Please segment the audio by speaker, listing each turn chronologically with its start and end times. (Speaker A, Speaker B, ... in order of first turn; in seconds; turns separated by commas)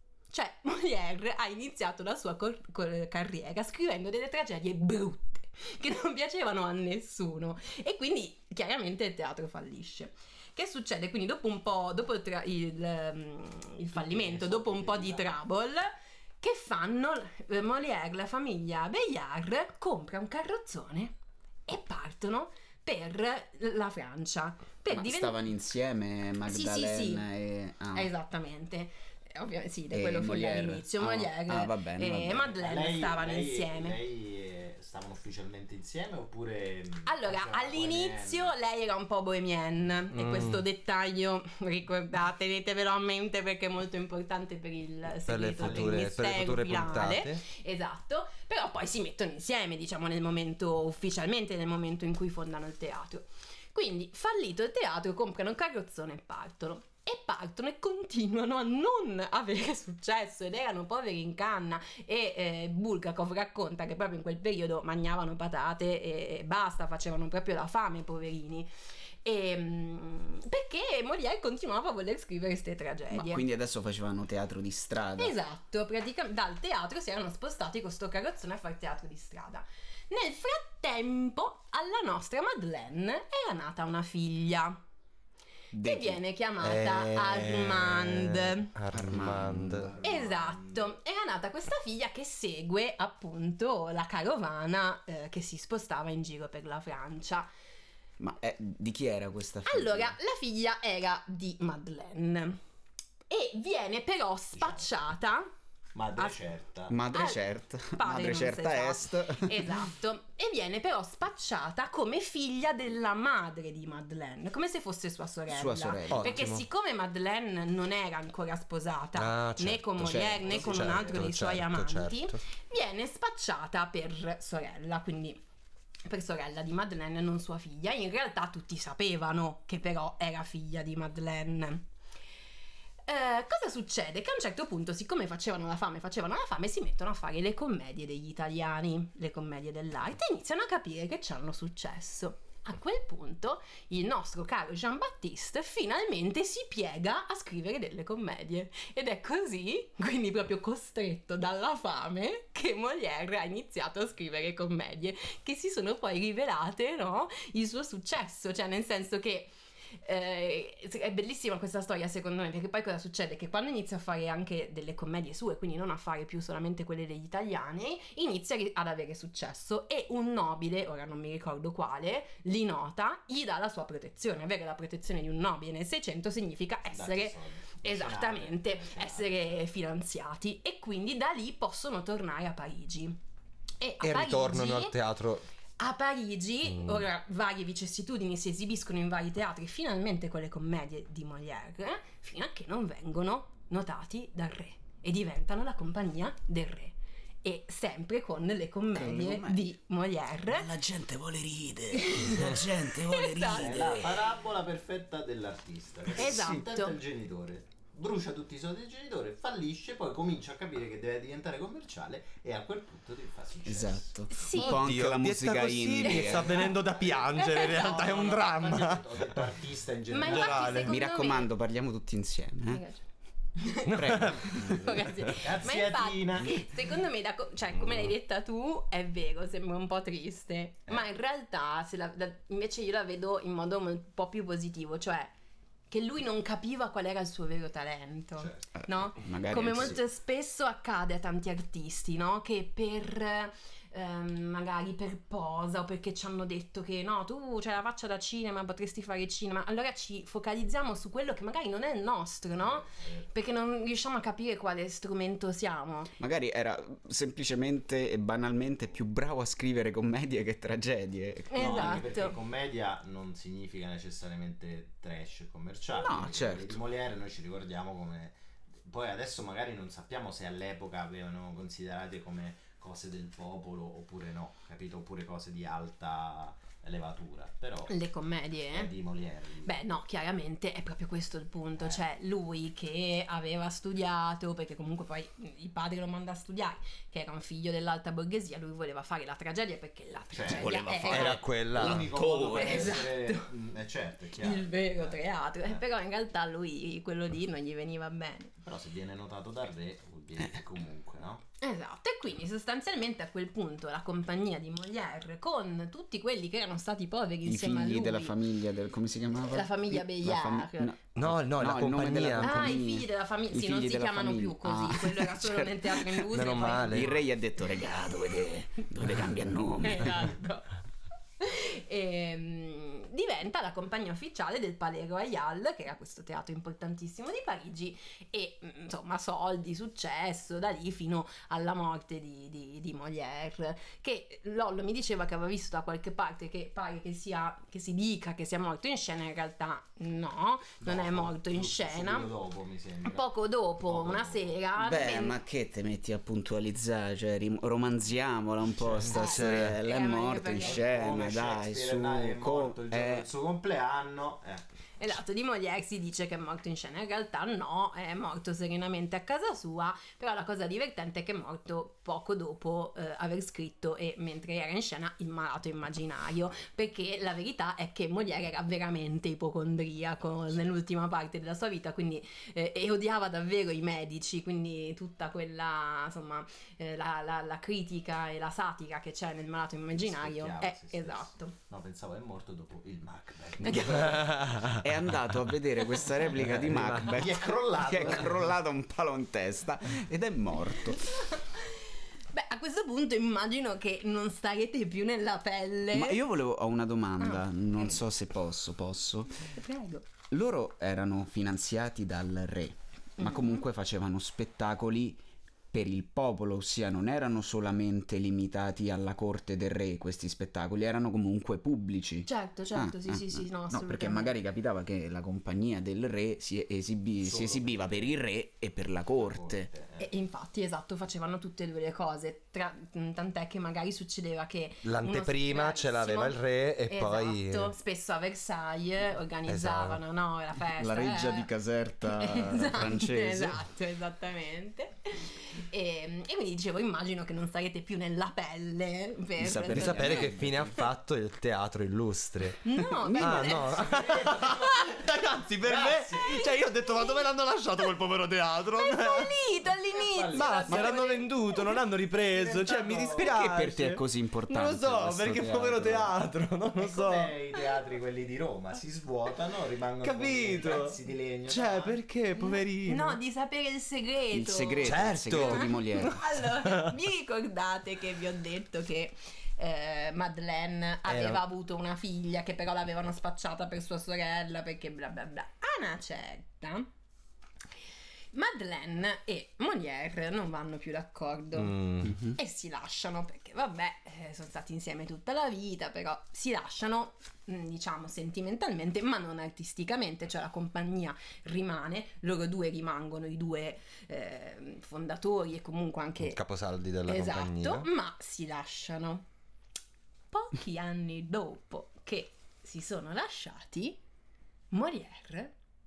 Speaker A: 0.3-21.1, Speaker B: 13.9-15.4, Speaker A: 21.7-25.4, Speaker C: 24.9-28.1, Speaker A: 26.5-27.2, Speaker A: 27.9-34.0, Speaker C: 29.9-32.5, Speaker B: 32.5-38.5, Speaker A: 37.0-68.7, Speaker D: 40.1-40.6, Speaker D: 45.3-47.4, Speaker B: 45.6-46.0, Speaker A: 69.2-73.4, Speaker C: 73.1-75.4, Speaker A: 75.2-84.8, Speaker C: 85.7-86.2, Speaker A: 85.8-88.7, Speaker D: 86.6-89.9, Speaker C: 88.9-89.9, Speaker B: 89.7-91.0, Speaker A: 90.0-97.5, Speaker C: 98.2-100.2, Speaker A: 99.7-102.6, Speaker A: 103.3-105.5, Speaker B: 104.6-104.9, Speaker B: 106.0-107.0, Speaker C: 106.9-109.8, Speaker A: 107.1-125.4, Speaker C: 115.5-116.5, Speaker D: 116.1-116.6, Speaker D: 119.2-122.4, Speaker C: 120.0-120.6, Speaker B: 120.5-121.3, Speaker A: 126.1-131.8, Speaker A: 133.1-183.2, Speaker B: 176.9-179.6, Speaker A: 183.8-184.9, Speaker D: 184.0-185.5, Speaker A: 185.8-200.8, Speaker D: 186.7-187.1, Speaker C: 198.9-199.7, Speaker C: 200.5-204.3, Speaker A: 201.9-204.0, Speaker B: 203.5-214.2, Speaker A: 206.1-207.0, Speaker C: 213.7-216.6, Speaker A: 214.3-214.9, Speaker D: 214.5-219.5, Speaker A: 216.1-216.8, Speaker B: 216.5-220.9, Speaker A: 217.3-218.3, Speaker A: 220.1-221.5, Speaker D: 220.2-220.9, Speaker C: 220.8-222.8, Speaker A: 222.7-223.0, Speaker A: 223.6-235.3, Speaker D: 223.8-225.4, Speaker C: 223.9-224.9, Speaker B: 225.4-226.7, Speaker A: 235.9-256.1, Speaker B: 238.4-238.6, Speaker C: 238.8-240.0, Speaker B: 252.6-253.3, Speaker C: 256.2-262.0, Speaker A: 261.5-262.4, Speaker B: 261.6-277.9, Speaker C: 266.0-266.8, Speaker A: 277.9-278.9, Speaker B: 278.7-279.8, Speaker A: 279.6-291.5, Speaker B: 290.3-290.7, Speaker C: 290.4-293.1, Speaker D: 291.1-292.1, Speaker B: 291.7-295.8, Speaker A: 292.2-293.5, Speaker A: 294.4-298.5, Speaker B: 298.6-301.4, Speaker A: 301.6-308.4, Speaker C: 307.5-320.3, Speaker A: 309.4-310.9, Speaker D: 311.1-312.8, Speaker A: 312.4-317.2, Speaker D: 316.3-317.2, Speaker A: 319.8-320.7, Speaker A: 321.4-342.3, Speaker B: 340.8-344.6, Speaker A: 343.1-345.4, Speaker C: 344.8-353.3, Speaker B: 348.8-349.1, Speaker D: 349.0-349.8, Speaker A: 349.1-350.9, Speaker B: 350.6-354.6, Speaker A: 355.0-381.6, Speaker B: 379.9-384.8, Speaker A: 383.6-384.2, Speaker D: 384.1-384.8, Speaker C: 384.8-391.1, Speaker D: 386.4-387.1, Speaker B: 387.0-388.5, Speaker A: 390.9-396.2, Speaker C: 395.9-399.6, Speaker A: 397.2-397.9, Speaker A: 399.5-400.1, Speaker C: 400.3-419.7, Speaker A: 403.2-403.6, Speaker A: 412.3-414.4, Speaker B: 417.2-418.1, Speaker B: 419.2-420.1, Speaker A: 420.0-431.5, Speaker D: 424.9-427.8, Speaker D: 429.5-430.0, Speaker C: 430.8-433.6, Speaker A: 432.1-440.3, Speaker C: 439.4-440.8, Speaker D: 439.7-449.3, Speaker A: 442.6-444.1, Speaker C: 442.8-443.6, Speaker B: 443.6-446.5, Speaker A: 446.3-447.2, Speaker A: 448.7-451.7, Speaker B: 449.9-450.9, Speaker D: 450.3-457.3, Speaker B: 452.3-453.4, Speaker C: 453.2-456.1, Speaker B: 456.8-461.9, Speaker D: 460.0-460.9, Speaker D: 461.5-463.2, Speaker A: 462.4-476.9, Speaker C: 464.3-466.2, Speaker D: 464.8-465.7, Speaker D: 466.6-466.9, Speaker D: 471.1-471.4, Speaker A: 478.3-496.4, Speaker D: 481.6-482.1, Speaker C: 482.1-482.3, Speaker D: 496.2-497.9, Speaker A: 497.1-499.3, Speaker A: 500.3-504.0, Speaker A: 504.7-505.5